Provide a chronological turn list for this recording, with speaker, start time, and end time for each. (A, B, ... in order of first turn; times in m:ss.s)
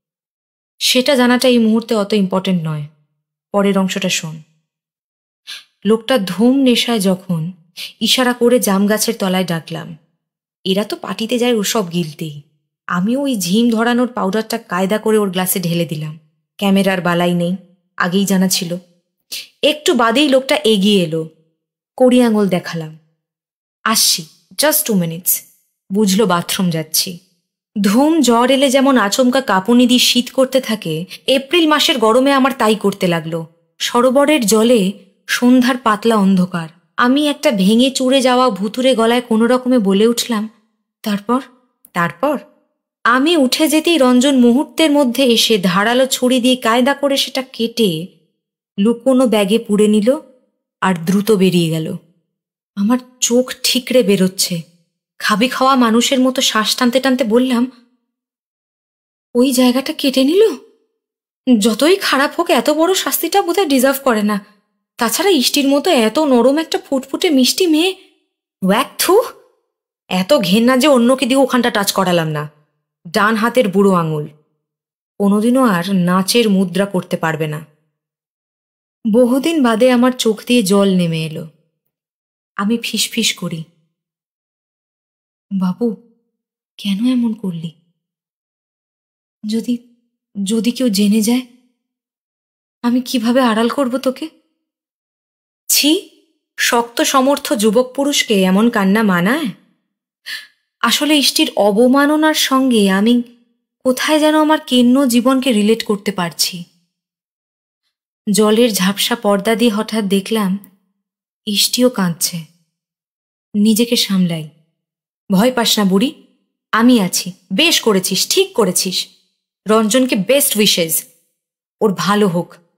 0:00.9-0:02.8 A
0:03.5-0:04.4 A
0:05.9-0:07.4 A
0:08.0-0:09.9 A
0:10.7-0:12.4 A
0:13.0-0:18.7 A
0:19.7-0:21.2 A
0:22.0-0:22.9 A
0:23.9-0:25.3 A
0:26.0-0:27.1 A
0:27.8-0:34.8 A
0:35.4-0:40.4 A
0:41.1-0:41.4 A
0:42.0-0:42.4 A
0:43.1-0:47.9 A
0:48.8-0:50.1 A
0:50.9-0:51.9 A
0:52.8-0:54.6 A
0:55.3-0:57.6 A
0:59.4-1:00.5 A
1:01.6-1:04.4 A
1:05.0-1:07.9 A
1:08.7-1:09.2 A
1:10.2-1:12.4 A
1:13.2-1:14.2 A
1:15.2-1:17.6 A
1:19.2-1:21.4 A
1:22.6-1:23.6 A
1:25.6-1:25.9 A
1:26.8-1:27.7 A
1:29.5-1:29.8 A
1:30.5-1:31.4 A
1:32.9-1:34.2 A
1:36.7-1:39.4 A
1:40.9-1:43.2 A
1:43.8-1:46.6 A
1:48.4-1:50.5 A
1:51.5-1:52.4 A
1:53.6-1:54.5 A
1:55.4-1:56.1 A
1:56.8-1:59.0 A
1:59.7-2:01.0 A
2:01.8-2:02.5 A